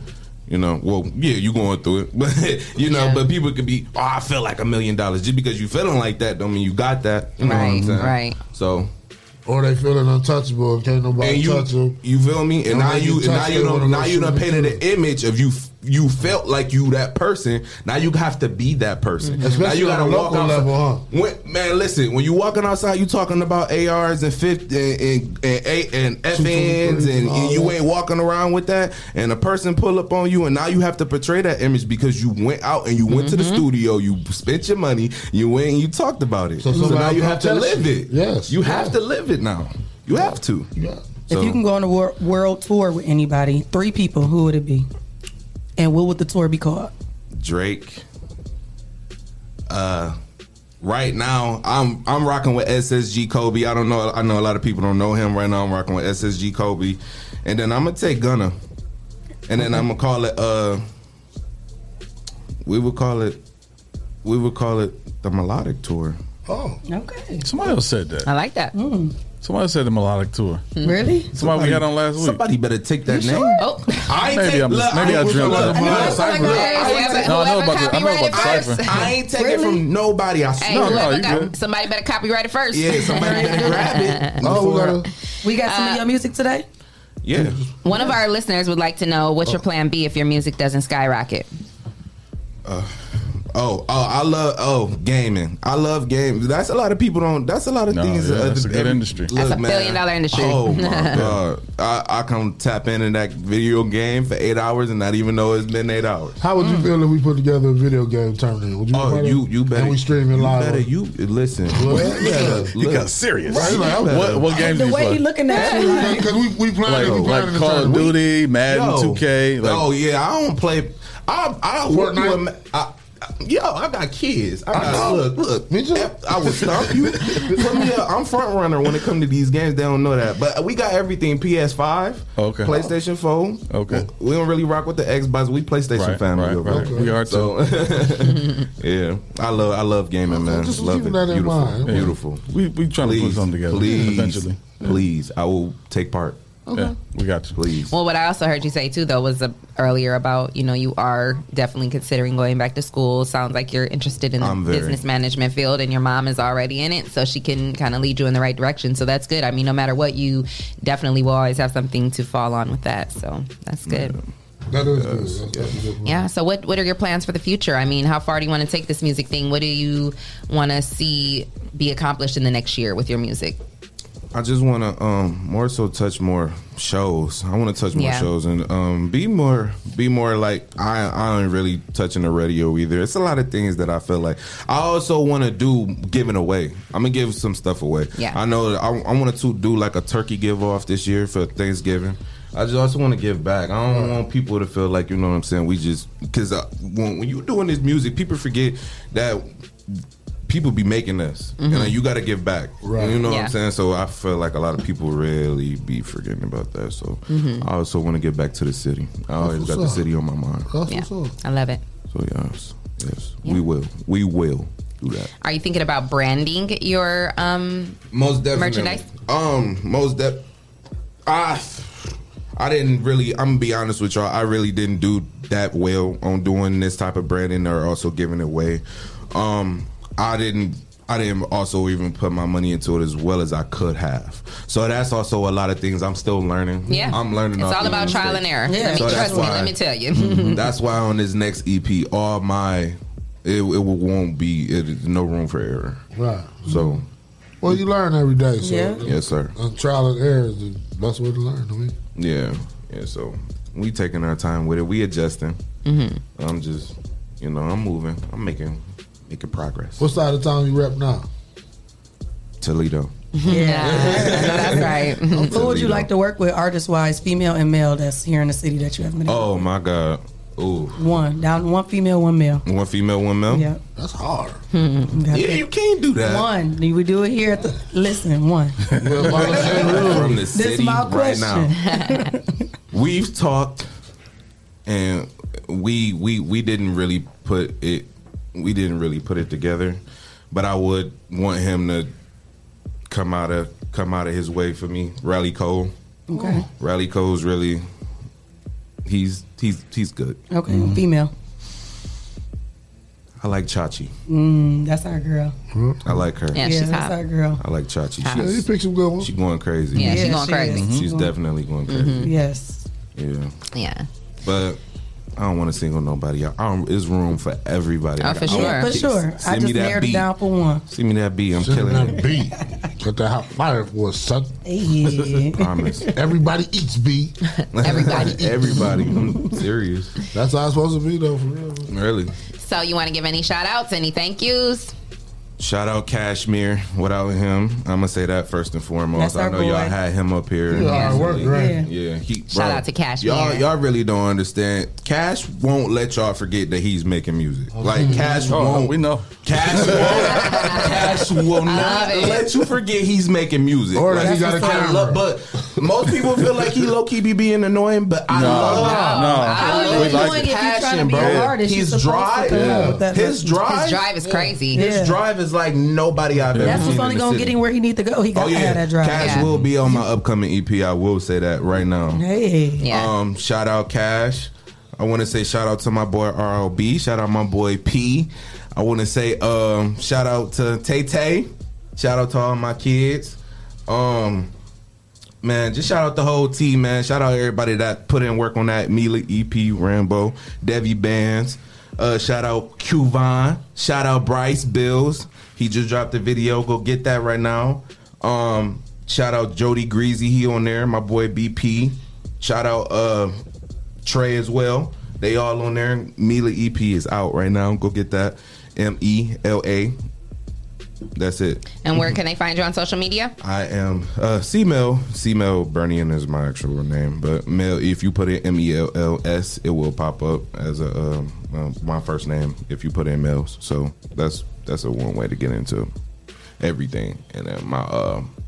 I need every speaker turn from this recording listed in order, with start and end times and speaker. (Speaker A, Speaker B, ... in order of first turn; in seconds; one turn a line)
Speaker A: 0.5-8.9
Speaker B: 2.8-3.2
Speaker B: 7.4-8.4
Speaker C: 9.4-12.0
Speaker A: 11.2-40.7
Speaker C: 12.7-14.8
Speaker B: 19.2-19.5
Speaker C: 19.4-21.0
Speaker C: 26.3-27.8
Speaker B: 33.1-33.6
Speaker C: 36.6-39.0
Speaker C: 40.1-41.1
Speaker D: 41.3-44.9
Speaker A: 41.3-41.6
Speaker D: 45.8-46.9
Speaker A: 47.3-48.0
Speaker A: 49.7-50.2
Speaker A: 50.8-58.5
Speaker A: 59.5-60.8
Speaker A: 62.6-63.4
Speaker A: 64.2-66.2
Speaker C: 66.5-66.8
Speaker D: 66.9-67.5
Speaker E: 67.4-68.3
Speaker B: 68.2-68.7
Speaker D: 68.7-69.1
Speaker E: 69.4-70.6
Speaker B: 70.8-71.0
Speaker D: 70.8-71.3
Speaker E: 71.3-72.4
Speaker A: 71.3-77.3
Speaker D: 73.1-73.6
Speaker B: 73.6-74.2
Speaker E: 74.1-79.1
Speaker C: 75.0-77.0
Speaker D: 75.8-77.3
Speaker B: 75.8-79.1
Speaker A: 78.3-81.5
Speaker D: 79.3-79.8
Speaker B: 80.6-84.5
Speaker E: 80.7-81.5
Speaker A: 82.7-85.0
Speaker D: 83.1-83.9
Speaker C: 84.4-85.1
Speaker D: 85.4-86.6
Speaker B: 85.5-86.0
Speaker A: 87.2-87.7
Speaker C: 87.3-87.7
Speaker B: 87.8-91.5
Speaker A: 92.6-92.9
Speaker A: 93.5-106.4
Speaker E: 97.9-99.3
Speaker B: 99.3-101.3
Speaker C: 106.4-110.9
Speaker D: 106.6-106.9
Speaker A: 108.9-114.5
Speaker C: 111.7-112.7
Speaker E: 112.2-115.4
Speaker C: 113.5-114.4
Speaker D: 114.5-116.3
Speaker A: 115.5-116.2
Speaker C: 115.6-118.2
Speaker E: 116.8-119.9
Speaker A: 116.9-142.4
Speaker C: 121.9-122.4
Speaker C: 124.7-127.7
Speaker E: 132.4-132.9
Speaker E: 133.7-134.1
Speaker E: 135.9-137.6
Speaker C: 136.6-137.2
Speaker C: 140.3-142.1
Speaker E: 141.8-144.9
Speaker A: 142.9-146.4
Speaker C: 146.7-146.9
Speaker E: 146.7-147.6
Speaker A: 147.5-147.9
Speaker B: 147.9-164.2
Speaker A: 154.4-155.0
Speaker A: 163.8-165.8
Speaker C: 164.7-166.3
Speaker B: 166.0-173.6
Speaker A: 174.3-210.7
Speaker B: 177.9-178.3
Speaker C: 193.8-194.2
Speaker B: 201.6-202.0
Speaker C: 202.8-203.2
Speaker B: 203.2-203.5
Speaker B: 207.3-207.7
Speaker C: 209.4-210.1
Speaker C: 210.7-211.3
Speaker B: 210.9-211.8
Speaker A: 212.1-215.3
Speaker B: 215.4-218.0
Speaker A: 218.1-220.4
Speaker B: 218.5-219.0
Speaker A: 221.2-246.0
Speaker B: 236.9-240.7
Speaker D: 238.0-239.6
Speaker C: 246.1-246.9
Speaker A: 246.7-247.1
Speaker C: 247.6-251.9
Speaker D: 248.6-249.0
Speaker A: 249.0-249.5
Speaker A: 252.2-255.6
Speaker B: 255.8-256.2
Speaker A: 256.3-260.1
Speaker C: 260.0-261.3
Speaker A: 262.6-263.1
Speaker B: 263.3-265.7
Speaker D: 263.5-264.9
Speaker A: 263.8-266.1
Speaker C: 265.3-265.6
Speaker D: 265.5-269.6
Speaker A: 269.2-271.0
Speaker D: 270.9-272.6
Speaker A: 272.6-273.7
Speaker D: 273.5-273.8
Speaker C: 273.9-274.6
Speaker B: 274.7-275.2
Speaker D: 275.1-275.6
Speaker A: 275.3-276.5
Speaker D: 276.2-278.8
Speaker C: 279.0-280.4
Speaker A: 279.2-281.7
Speaker D: 280.5-282.4
Speaker B: 281.8-282.3
Speaker A: 282.9-283.9
Speaker A: 284.9-290.0
Speaker A: 290.5-292.1
Speaker A: 293.1-297.9
Speaker D: 296.3-296.6
Speaker A: 299.0-300.4
Speaker D: 300.5-301.3
Speaker E: 300.7-301.0
Speaker A: 303.4-304.1
Speaker D: 304.3-305.5
Speaker C: 305.7-306.1
Speaker A: 306.0-306.6
Speaker B: 306.5-307.2
Speaker D: 306.6-307.6
Speaker A: 307.6-308.7
Speaker B: 308.2-308.5
Speaker C: 308.3-309.3
Speaker A: 309.2-312.3
Speaker B: 309.9-310.9
Speaker D: 309.9-311.3
Speaker E: 310.7-311.1
Speaker B: 311.9-312.3
Speaker D: 312.2-312.8
Speaker A: 313.1-313.6
Speaker B: 313.7-314.1
Speaker A: 314.4-314.8
Speaker A: 315.4-320.3
Speaker B: 318.2-319.0
Speaker D: 318.4-320.8
Speaker A: 320.9-322.2
Speaker C: 321.5-324.5
Speaker D: 324.6-326.1
Speaker A: 325.0-326.1
Speaker C: 326.1-329.1
Speaker A: 327.7-330.1
Speaker B: 327.8-328.4
Speaker C: 330.3-331.9
Speaker A: 331.9-332.3
Speaker B: 332.6-334.9
Speaker A: 335.6-367.6
Speaker D: 339.1-339.9
Speaker C: 340.7-341.8
Speaker B: 340.9-341.3
Speaker D: 341.5-341.9
Speaker B: 342.5-343.7
Speaker C: 347.7-348.9
Speaker E: 348.2-350.4
Speaker B: 350.3-351.0
Speaker B: 351.6-352.5
Speaker C: 353.9-356.7
Speaker D: 354.1-355.1
Speaker E: 358.3-360.4
Speaker D: 358.7-363.7
Speaker B: 358.8-361.2
Speaker E: 361.1-361.6
Speaker C: 362.5-363.1
Speaker B: 363.7-364.9
Speaker D: 364.7-365.2
Speaker E: 366.5-366.8
Speaker D: 366.6-369.5
Speaker B: 366.6-367.0
Speaker A: 368.3-372.2
Speaker B: 369.2-369.5
Speaker D: 372.1-372.8
Speaker B: 372.8-373.1
Speaker A: 372.9-384.5
Speaker A: 385.4-403.4
Speaker A: 404.0-409.9
Speaker A: 411.1-412.1
Speaker B: 411.8-413.3
Speaker A: 413.4-425.9
Speaker A: 426.6-428.3